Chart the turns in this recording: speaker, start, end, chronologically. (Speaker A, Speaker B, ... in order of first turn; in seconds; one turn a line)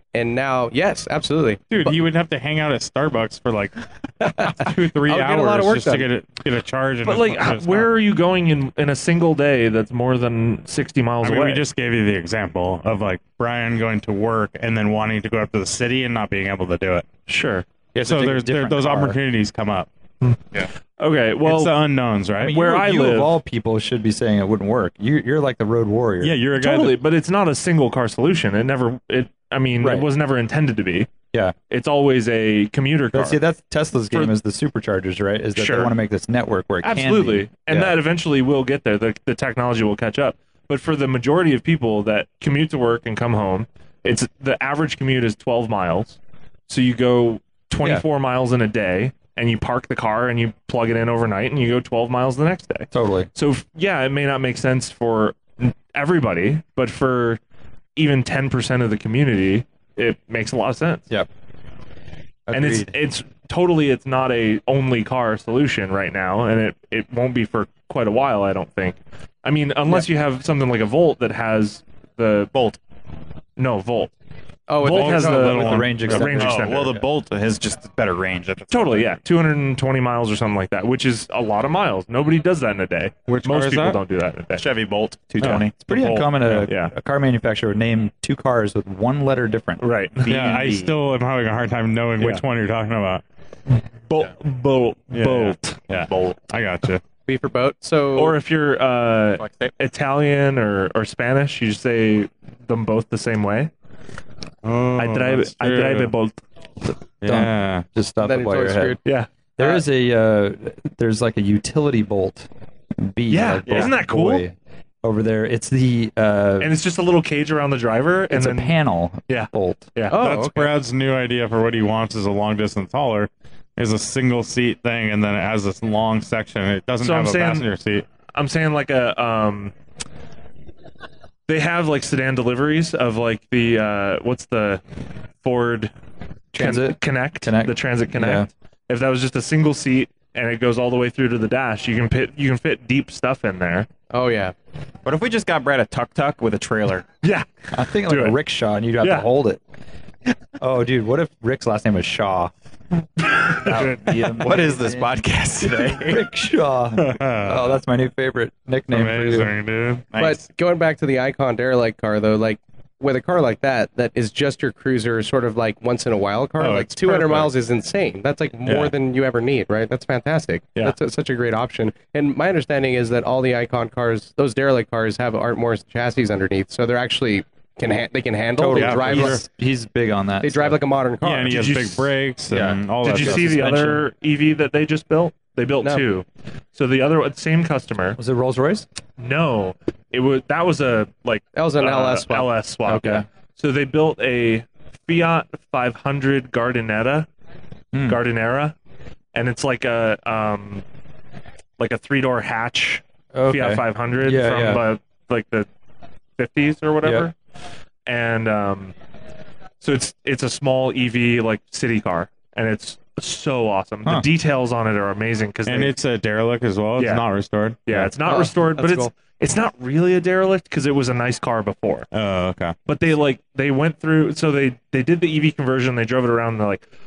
Speaker A: 0.1-1.9
Speaker B: 1.7-7.9
Speaker A: 4.2-6.1
Speaker C: 7.0-11.7
Speaker B: 11.2-17.1
Speaker C: 17.3-17.7
Speaker D: 17.9-19.2
Speaker B: 18.0-19.9
Speaker C: 21.0-21.7
Speaker B: 21.4-22.6
Speaker D: 22.4-26.4
Speaker C: 22.4-23.3
Speaker B: 26.2-27.0
Speaker C: 26.6-31.1
Speaker D: 29.8-30.1
Speaker C: 31.7-33.4
Speaker D: 33.1-38.0
Speaker C: 35.5-35.9
Speaker C: 36.8-57.4
Speaker D: 52.9-53.3
Speaker C: 58.0-61.0
Speaker D: 62.5-62.9
Speaker C: 62.5-72.5
Speaker E: 72.5-72.8
Speaker C: 73.6-74.1
Speaker A: 74.7-75.9
Speaker C: 74.8-77.0
Speaker B: 74.8-76.4
Speaker D: 75.4-77.0
Speaker E: 76.4-79.2
Speaker C: 78.7-84.7
Speaker B: 83.3-84.0
Speaker E: 84.5-85.8
Speaker D: 85.8-89.8
Speaker C: 85.9-86.9
Speaker C: 89.8-90.3
Speaker E: 90.2-90.9
Speaker B: 90.3-93.2
Speaker C: 92.2-92.5
Speaker C: 94.1-95.8
Speaker B: 95.1-97.0
Speaker E: 95.9-96.4
Speaker A: 97.3-98.4
Speaker C: 98.2-103.7
Speaker E: 99.4-99.7
Speaker B: 104.6-106.1
Speaker C: 105.0-106.4
Speaker B: 107.2-107.9
Speaker D: 107.2-109.0
Speaker A: 108.2-109.0
Speaker D: 109.6-116.8
Speaker C: 113.3-114.5
Speaker C: 116.6-118.8
Speaker D: 118.3-119.9
Speaker C: 119.3-120.3
Speaker A: 120.1-120.8
Speaker B: 120.2-128.1
Speaker C: 127.0-127.7
Speaker C: 128.3-129.7
Speaker C: 131.5-134.8
Speaker C: 135.4-135.9
Speaker D: 136.5-138.5
Speaker C: 136.6-143.9
Speaker A: 144.1-144.5
Speaker E: 145.1-147.1
Speaker C: 147.2-148.4
Speaker D: 147.7-149.6
Speaker C: 149.0-149.3
Speaker D: 150.6-152.6
Speaker D: 153.2-159.6
Speaker C: 153.7-154.0
Speaker E: 154.2-156.3
Speaker B: 157.0-157.7
Speaker B: 158.9-160.1
Speaker E: 160.1-160.5
Speaker A: 160.2-179.4
Speaker B: 166.6-167.5
Speaker B: 168.7-168.9
Speaker D: 178.6-180.8
Speaker B: 178.7-179.4
Speaker A: 180.4-181.6
Speaker B: 181.2-184.0
Speaker C: 181.5-182.1
Speaker D: 182.5-183.8
Speaker C: 183.0-188.2
Speaker D: 188.2-188.9
Speaker C: 189.2-197.3
Speaker A: 191.6-192.5
Speaker D: 192.8-193.3
Speaker D: 197.9-198.2
Speaker C: 198.1-198.8
Speaker C: 199.3-200.8
Speaker C: 201.8-205.7
Speaker D: 203.3-204.8
Speaker C: 206.4-207.3
Speaker D: 207.0-207.3
Speaker C: 208.1-208.9
Speaker C: 209.8-215.9
Speaker B: 215.7-218.1
Speaker C: 217.0-217.2
Speaker C: 217.9-222.1
Speaker A: 218.3-219.1
Speaker B: 222.1-222.8
Speaker C: 222.9-226.8